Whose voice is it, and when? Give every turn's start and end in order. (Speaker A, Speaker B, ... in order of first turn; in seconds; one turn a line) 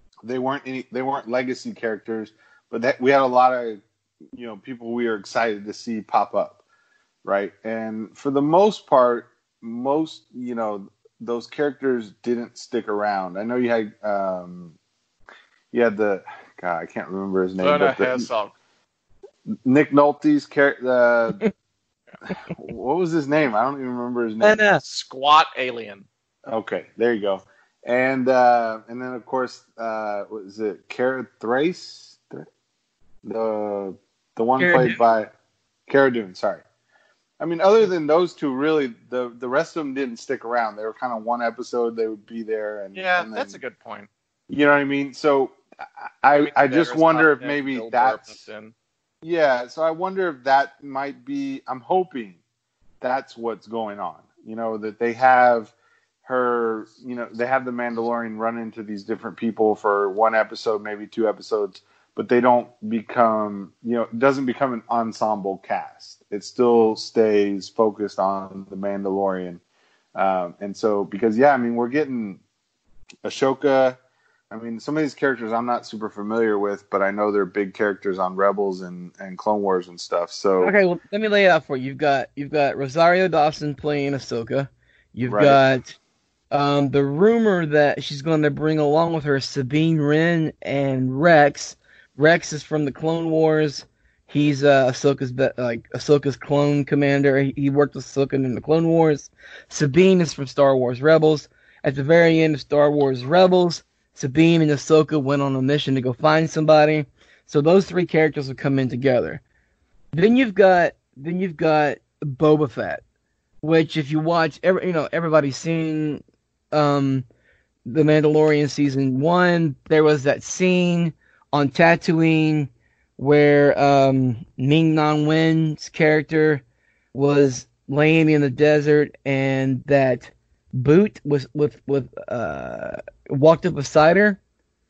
Speaker A: 0.2-3.8
Speaker A: 4.3-6.6
Speaker A: 7.2-14.7
Speaker A: 15.7-18.3
Speaker B: 17.6-18.5
Speaker A: 19.6-21.4
Speaker A: 22.5-24.6
Speaker C: 24.4-24.8
Speaker B: 24.8-26.1
Speaker A: 26.5-32.5
Speaker A: 33.2-35.3
Speaker C: 34.6-35.0
Speaker A: 35.9-36.6
Speaker A: 37.4-43.5
Speaker B: 42.9-44.1
Speaker A: 44.5-45.6
Speaker A: 46.2-48.3
Speaker B: 46.4-48.7
Speaker A: 49.2-52.4
Speaker A: 53.0-55.7
Speaker A: 56.2-69.6
Speaker A: 70.1-72.4
Speaker A: 73.2-74.0
Speaker A: 74.5-80.7
Speaker C: 80.6-86.0
Speaker A: 85.3-85.6
Speaker C: 86.5-109.4
Speaker C: 110.1-113.0
Speaker C: 113.6-117.2
Speaker C: 117.8-134.4